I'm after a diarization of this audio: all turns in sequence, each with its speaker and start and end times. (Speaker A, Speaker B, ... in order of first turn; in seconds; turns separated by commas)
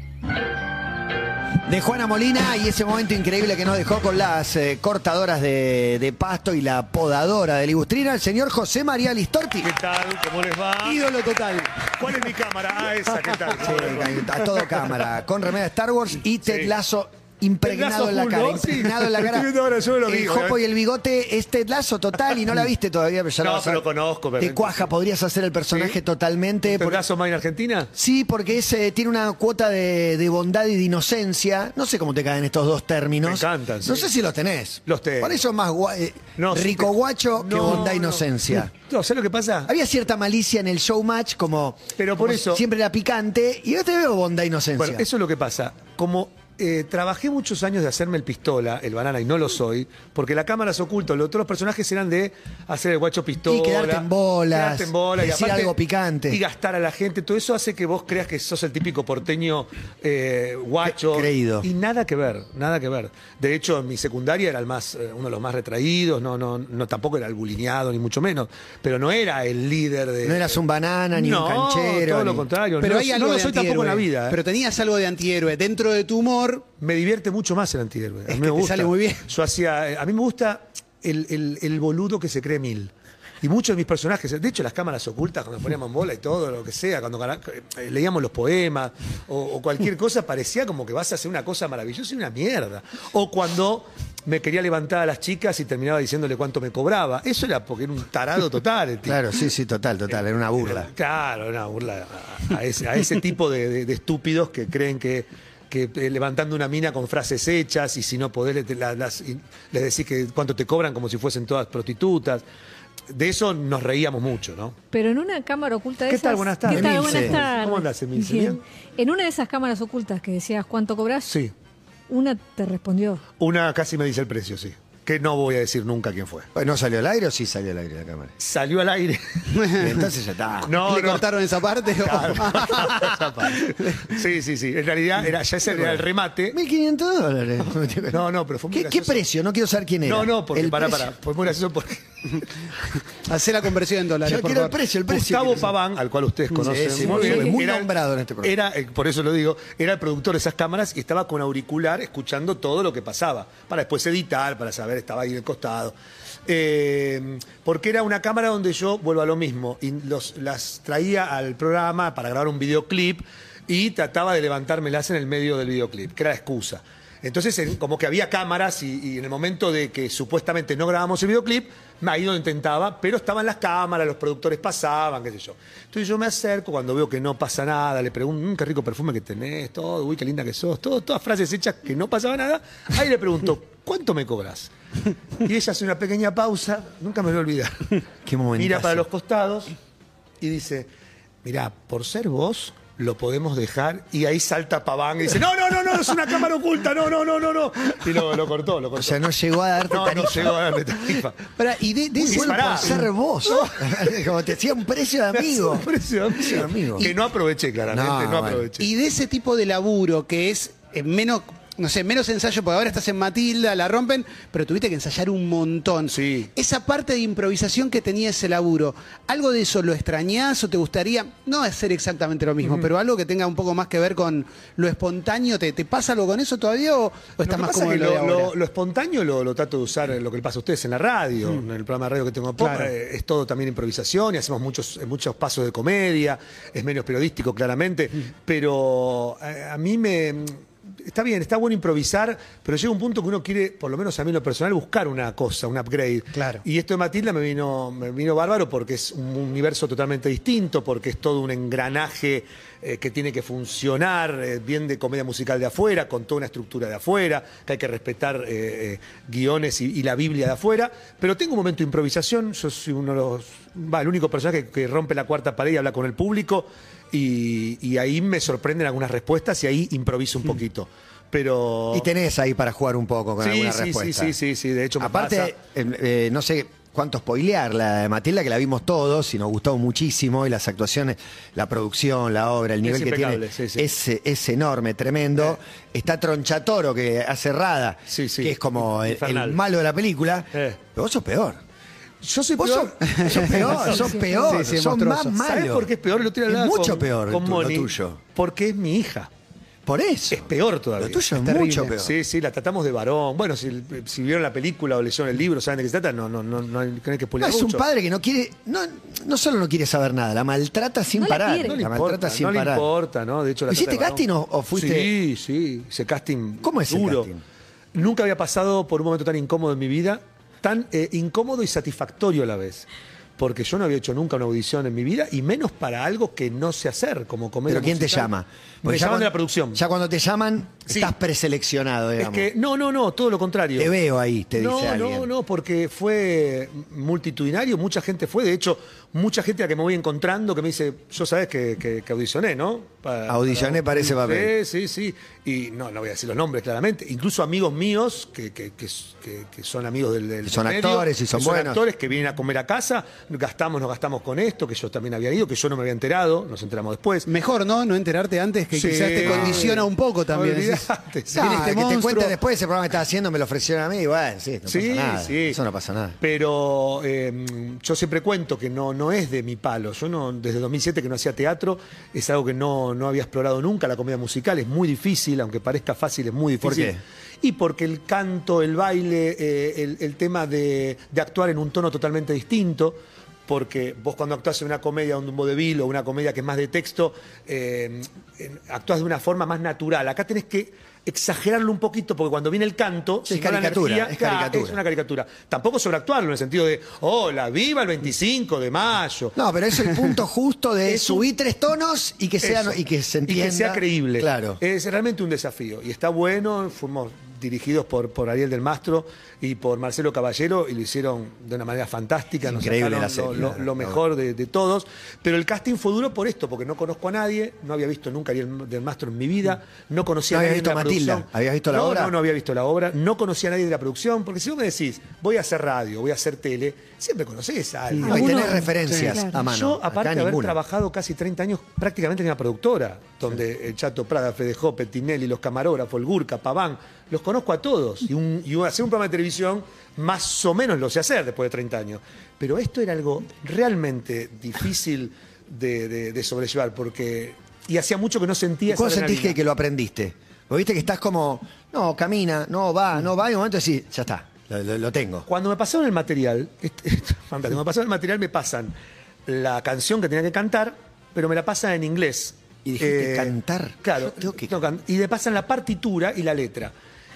Speaker A: 1.6-9.7, Speaker B: 9.6-11.0, Speaker C: 10.8-11.7, Speaker B: 11.9-14.6, Speaker A: 13.5-19.5, Speaker B: 16.4-16.7, Speaker B: 17.6-20.6, Speaker A: 20.1-23.8, Speaker B: 23.4-24.9, Speaker A: 24.4-27.0, Speaker B: 25.7-26.0, Speaker B: 26.6-27.9, Speaker A: 27.9-38.7, Speaker B: 33.2-34.1, Speaker B: 34.9-35.4, Speaker B: 36.4-39.7, Speaker A: 39.6-45.0, Speaker B: 42.0-42.6, Speaker B: 44.8-55.8, Speaker A: 53.5-56.4, Speaker B: 56.3-70.6, Speaker A: 60.8-61.7, Speaker A: 70.2-72.5, Speaker B: 71.1-74.4, Speaker C: 72.8-76.6, Speaker B: 76.8-99.2, Speaker C: 78.3-79.3, Speaker A: 99.0-100.9, Speaker B: 100.5-112.4, Speaker B: 113.1-114.8, Speaker D: 114.9-121.4, Speaker B: 116.1-118.6, Speaker A: 116.7-117.4, Speaker D: 122.1-123.2, Speaker B: 123.4-126.5, Speaker A: 126.5-128.3, Speaker B: 128.4-129.7, Speaker C: 129.5-129.9, Speaker A: 129.8-130.7, Speaker B: 130.7-131.3, Speaker C: 130.7-134.1, Speaker B: 132.0-136.6, Speaker A: 135.7-141.1, Speaker B: 138.1-139.2, Speaker B: 140.0-142.5, Speaker C: 143.2-144.8, Speaker A: 144.2-145.7, Speaker B: 145.1-147.9, Speaker A: 146.5-148.5, Speaker B: 148.4-155.9, Speaker B: 156.4-184.7, Speaker B: 185.4-187.9, Speaker A: 188.2-189.0, Speaker B: 188.6-189.7, Speaker B: 190.4-190.9, Speaker B: 191.4-199.2, Speaker A: 198.9-200.8, Speaker B: 199.9-201.4, Speaker C: 201.6-203.0, Speaker A: 202.2-207.1, Speaker B: 202.3-204.2, Speaker B: 205.3-208.9, Speaker A: 207.9-208.7, Speaker C: 208.8-228.5, Speaker B: 216.1-216.5, Speaker B: 227.4-272.1, Speaker C: 232.6-232.9, Speaker C: 246.3-246.6, Speaker A: 271.9-274.4, Speaker B: 273.4-275.5, Speaker A: 275.0-291.6, Speaker B: 282.8-283.9, Speaker B: 288.1-289.6, Speaker B: 290.5-290.8, Speaker B: 292.2-294.1, Speaker A: 292.6-295.9, Speaker C: 293.1-293.6, Speaker D: 293.8-294.6, Speaker C: 294.4-295.3, Speaker B: 295.4-299.3, Speaker A: 296.5-298.2, Speaker A: 299.9-302.2, Speaker B: 300.3-301.3, Speaker C: 301.4-301.9, Speaker B: 302.0-307.8, Speaker A: 307.4-312.8, Speaker D: 311.1-311.8, Speaker B: 311.6-317.3, Speaker A: 313.7-315.1, Speaker A: 316.6-317.4, Speaker B: 317.9-328.3, Speaker A: 327.7-332.5, Speaker B: 328.8-329.8, Speaker B: 332.2-333.9, Speaker A: 333.8-335.3, Speaker B: 334.6-357.3, Speaker A: 343.3-344.5, Speaker A: 350.4-351.8, Speaker C: 357.2-362.4, Speaker B: 358.7-361.8, Speaker A: 359.2-359.7, Speaker A: 361.3-366.2, Speaker B: 364.7-365.6, Speaker B: 366.2-399.3, Speaker A: 376.6-377.0, Speaker A: 393.2-394.8, Speaker A: 399.3-404.6, Speaker B: 400.9-401.2, Speaker B: 402.4-449.4, Speaker A: 412.4-414.0, Speaker A: 420.3-422.1, Speaker D: 428.0-429.4, Speaker A: 428.0-430.6, Speaker A: 448.7-455.2, Speaker B: 455.3-458.7, Speaker B: 459.3-466.7, Speaker A: 462.6-464.5